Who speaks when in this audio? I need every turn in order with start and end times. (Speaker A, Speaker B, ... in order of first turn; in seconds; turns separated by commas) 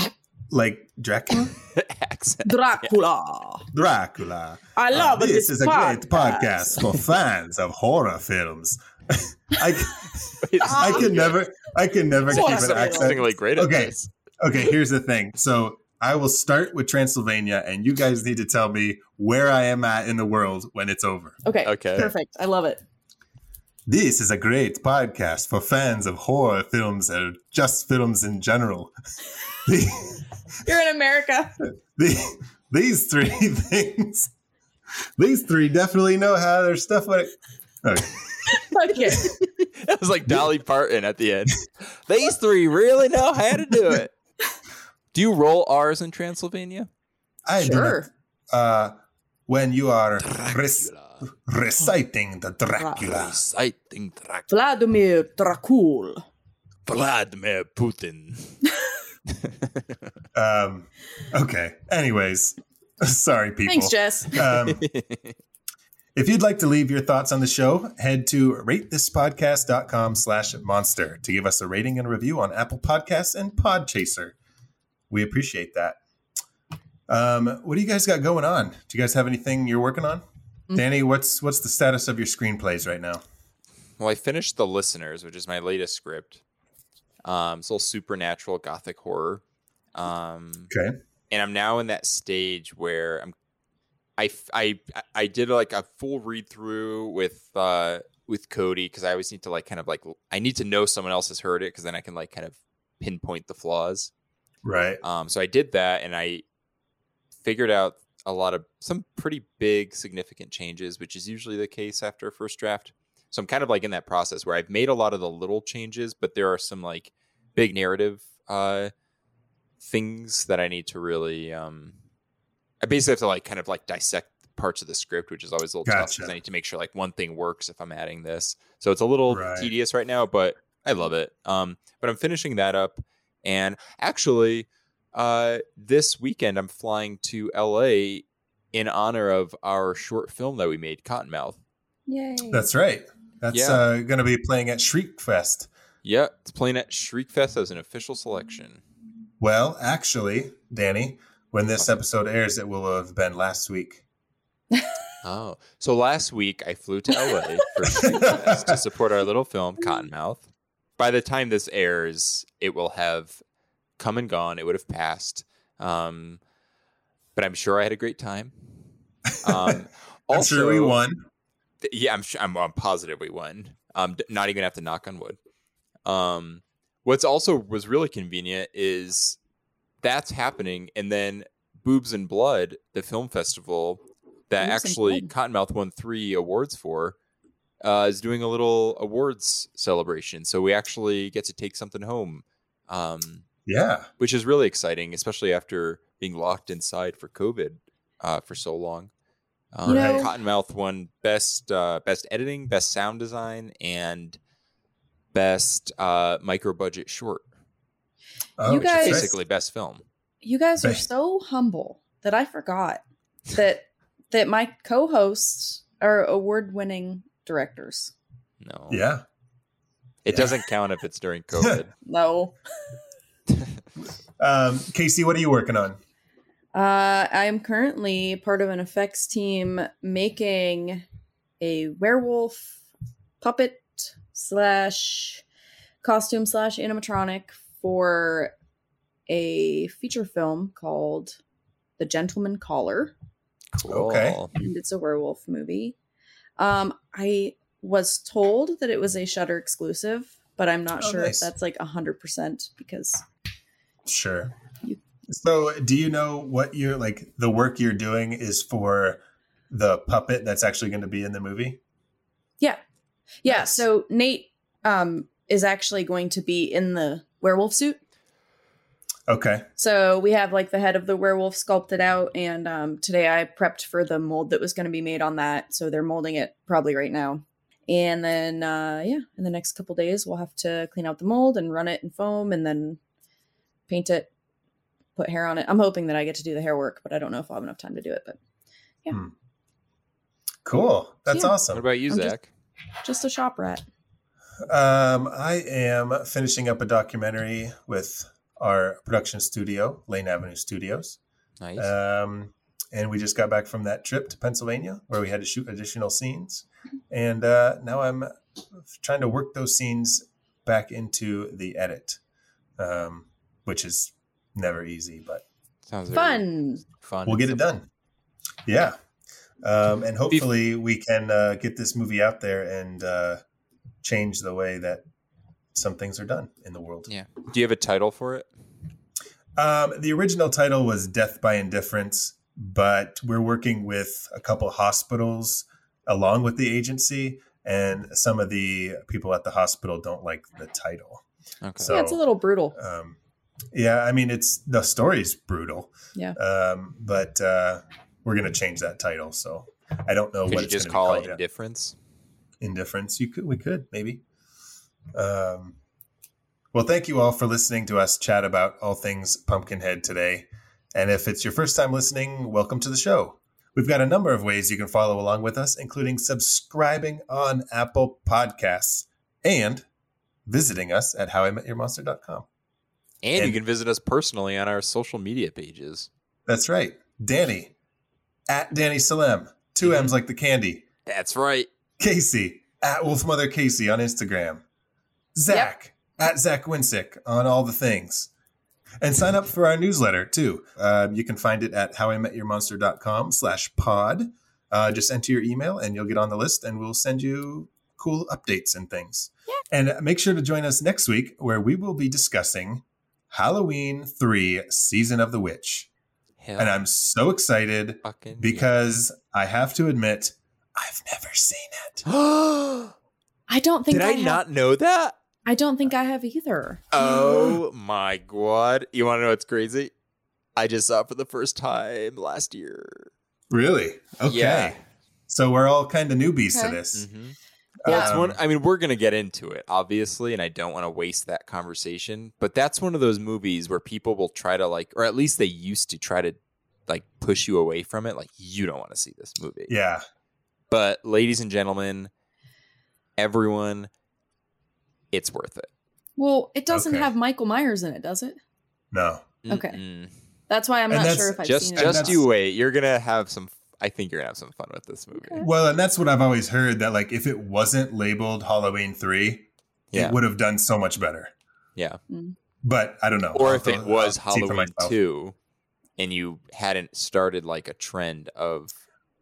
Speaker A: 0.5-1.5, Speaker B: 1.7-2.9, Speaker C: 2.4-3.6, Speaker A: 3.7-21.4, Speaker C: 4.8-6.8, Speaker B: 10.4-11.4, Speaker C: 10.6-11.1, Speaker B: 12.3-14.1, Speaker C: 12.3-13.1, Speaker C: 21.4-22.8, Speaker B: 21.6-22.1, Speaker A: 23.9-28.9, Speaker A: 29.5-30.2, Speaker C: 30.6-31.5, Speaker A: 31.9-34.3, Speaker A: 35.2-38.6, Speaker C: 38.5-39.3, Speaker B: 39.4-44.1, Speaker B: 45.1-46.9, Speaker A: 47.5-53.4, Speaker C: 47.6-48.1, Speaker B: 50.2-51.2, Speaker B: 53.0-54.5, Speaker C: 54.5-56.2, Speaker B: 56.9-58.6, Speaker B: 59.3-60.0, Speaker A: 60.3-64.8, Speaker C: 63.6-64.4, Speaker B: 64.6-65.3, Speaker A: 66.1-74.3, Speaker A: 75.1-76.0, Speaker A: 77.1-83.2, Speaker B: 84.0-86.4, Speaker B: 87.2-89.4, Speaker B: 89.9-90.7, Speaker A: 90.7-91.0, Speaker B: 91.3-93.3, Speaker B: 94.2-104.1, Speaker A: 104.6-105.0, Speaker B: 105.0-106.4, Speaker B: 107.4-118.9, Speaker B: 119.8-122.0, Speaker B: 122.8-141.6, Speaker A: 125.8-126.3, Speaker A: 129.3-129.7, Speaker C: 142.1-142.7, Speaker A: 142.5-145.7, Speaker B: 143.5-143.8, Speaker B: 146.0-148.8, Speaker A: 149.4-154.0, Speaker B: 155.2-160.4, Speaker A: 158.2-158.8, Speaker B: 161.0-163.4, Speaker B: 164.0-166.4, Speaker B: 167.3-168.5, Speaker A: 169.3-169.8, Speaker B: 169.4-171.0, Speaker A: 170.3-171.2, Speaker B: 171.8-175.4, Speaker B: 176.1-179.4, Speaker B: 180.0-187.2, Speaker C: 184.6-185.3, Speaker B: 187.8-193.4, Speaker A: 193.7-194.1, Speaker B: 194.2-199.1, Speaker B: 199.7-204.4, Speaker C: 199.8-200.3, Speaker A: 199.8-200.3, Speaker B: 205.3-207.4, Speaker A: 208.6-209.3, Speaker C: 208.6-209.3, Speaker B: 208.7-210.0, Speaker C: 210.4-218.1, Speaker B: 218.6-219.0, Speaker A: 218.9-219.2, Speaker B: 220.2-221.9, Speaker A: 220.3-220.6, Speaker C: 222.1-222.6, Speaker A: 224.4-226.0, Speaker C: 226.7-231.0, Speaker C: 231.6-232.8, Speaker C: 233.4-235.4, Speaker C: 236.0-238.5, Speaker C: 239.3-241.4, Speaker C: 242.0-243.1, Speaker B: 243.7-244.5, Speaker A: 243.8-244.4, Speaker C: 244.6-245.9, Speaker C: 246.6-253.2, Speaker A: 251.0-251.5, Speaker A: 254.1-254.5, Speaker A: 255.3-261.8, Speaker C: 263.4-268.0, Speaker A: 263.5-263.8, Speaker A: 269.3-269.7, Speaker C: 269.8-283.0, Speaker C: 283.9-284.3, Speaker C: 285.2-288.4, Speaker A: 290.6-291.8, Speaker C: 291.3-291.5, Speaker B: 291.7-292.5, Speaker C: 292.1-292.3, Speaker C: 293.0-293.8, Speaker A: 294.6-301.2, Speaker B: 301.6-301.9, Speaker A: 301.8-308.3, Speaker A: 308.9-312.2, Speaker A: 312.8-315.4, Speaker B: 315.9-317.6, Speaker C: 316.1-316.8, Speaker A: 317.2-317.9, Speaker A: 318.6-319.0, Speaker A: 319.6-323.4, Speaker A: 324.0-325.0, Speaker A: 325.7-327.1, Speaker B: 327.1-328.5, Speaker A: 329.6-341.2, Speaker B: 341.6-341.9, Speaker A: 341.8-342.2, Speaker C: 341.9-342.8, Speaker A: 342.7-343.2, Speaker A: 343.7-351.4, Speaker B: 350.5-351.9, Speaker A: 352.6-354.2, Speaker A: 355.1-355.8, Speaker A: 356.7-369.9, Speaker A: 370.4-372.4, Speaker B: 373.2-376.1, Speaker A: 376.5-377.7, Speaker A: 378.5-380.8, Speaker B: 379.8-380.1, Speaker B: 381.1-381.7, Speaker A: 382.0-384.6, Speaker A: 385.3-388.3, Speaker A: 389.0-405.9, Speaker B: 406.4-406.9, Speaker A: 406.6-412.1, Speaker B: 408.0-408.7, Speaker B: 412.1-412.9, Speaker C: 413.5-414.4, Speaker B: 413.9-415.2, Speaker C: 415.4-416.9, Speaker B: 416.9-419.9, Speaker B: 420.6-423.1, Speaker A: 423.5-424.8, Speaker B: 424.2-424.8, Speaker A: 425.3-427.1, Speaker C: 426.5-426.8, Speaker B: 426.9-439.7, Speaker A: 427.8-428.4, Speaker C: 427.9-428.1, Speaker A: 439.7-440.0, Speaker B: 440.7-442.1, Speaker B: 443.2-443.9, Speaker B: 445.1-445.7, Speaker C: 446.2-448.4, Speaker A: 446.7-447.1, Speaker A: 448.9-449.3, Speaker B: 449.4-450.1, Speaker C: 449.5-449.8, Speaker C: 450.5-452.2, Speaker A: 450.9-452.2, Speaker B: 451.4-455.4, Speaker C: 455.1-455.5, Speaker A: 455.4-461.3, Speaker B: 459.9-460.2, Speaker C: 462.1-462.3, Speaker A: 462.6-464.9, Speaker B: 463.3-465.3, Speaker B: 466.0-468.8